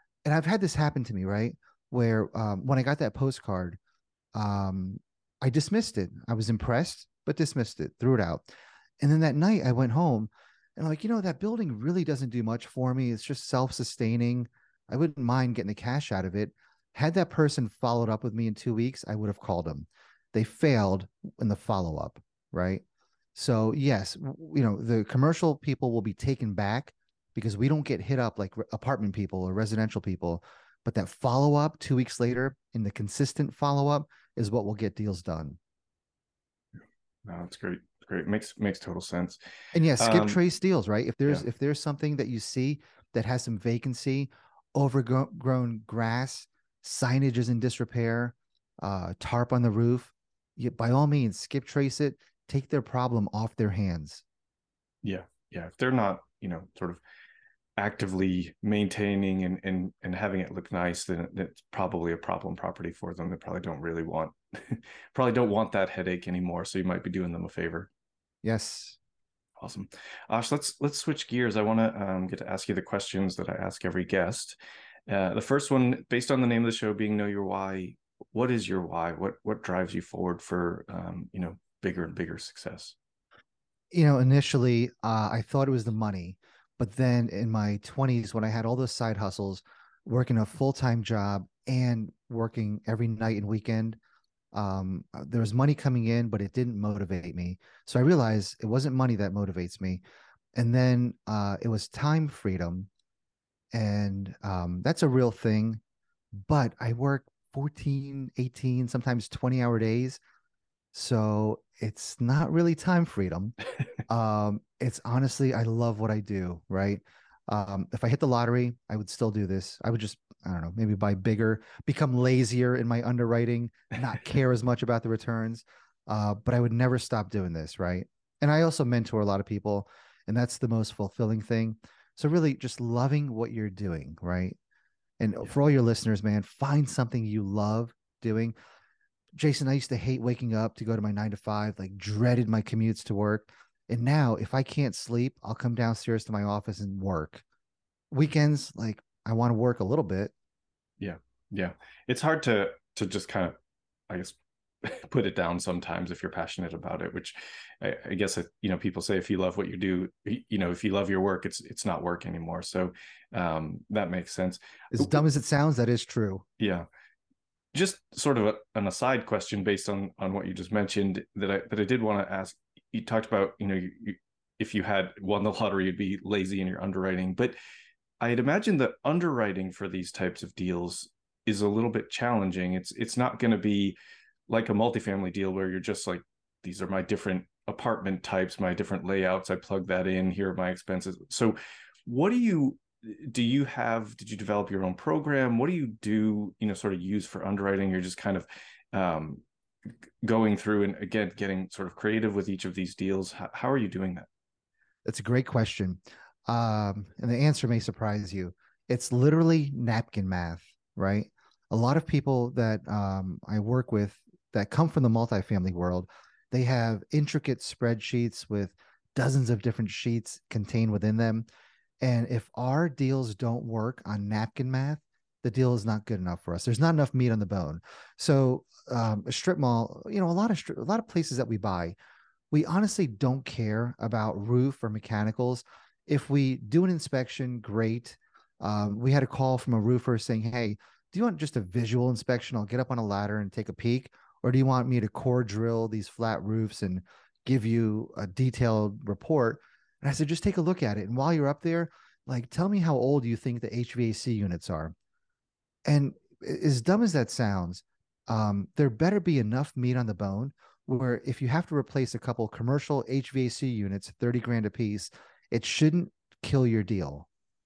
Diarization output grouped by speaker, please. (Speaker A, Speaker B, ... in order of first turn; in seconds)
Speaker A: 0.2-3.8, 4.3-8.5, 9.0-22.8, 23.4-35.6, 39.7-54.2, 68.4-69.0, 83.9-94.0, 94.5-100.0, 100.5-102.9, 103.7-105.8, 106.3-110.2, 110.9-113.6, 114.1-134.6, 135.2-138.5, 139.4-147.4, 148.1-150.3, 164.9-166.4, 205.1-221.5, 222.0-231.9, 232.5-254.9, 255.9-267.3
Speaker B: 37.2-39.4, 40.0-40.4, 55.0-57.0, 57.8-67.9, 69.6-83.0, 151.0-153.6, 154.1-165.2, 166.6-166.9, 167.7-177.6, 178.2-184.0, 184.5-204.3